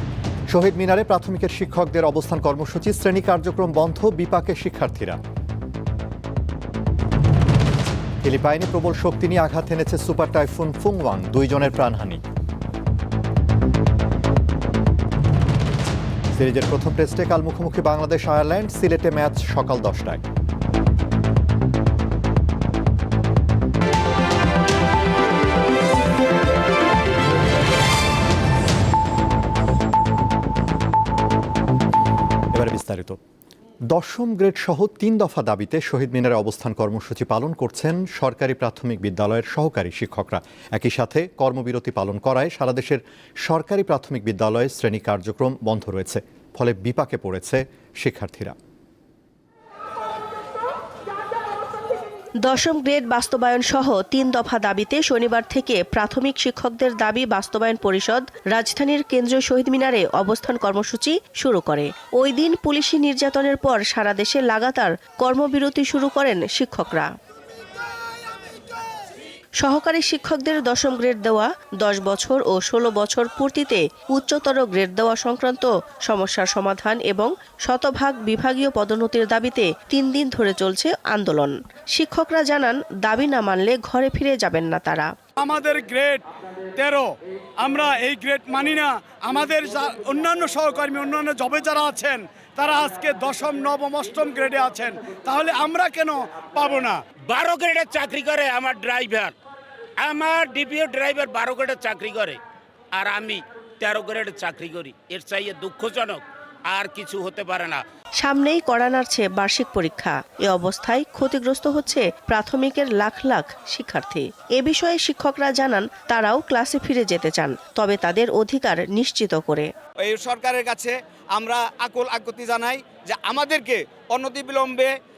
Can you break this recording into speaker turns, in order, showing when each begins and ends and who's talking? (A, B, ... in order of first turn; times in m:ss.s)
0:00.5-0:05.2 A
0:08.2-0:12.2 A
0:16.3-0:20.2 A
0:32.5-0:33.2 A
0:33.9-0:48.6 A
0:52.4-1:07.1 B
1:09.6-1:25.1 B
1:25.4-1:37.0 C
1:37.3-1:39.3 D
1:40.0-1:42.4 D
1:43.0-1:47.8 D
1:48.2-1:59.7 B
2:00.1-2:00.9 E
2:00.2-2:00.8 D
2:01.4-2:04.9 E
2:01.4-2:04.7 D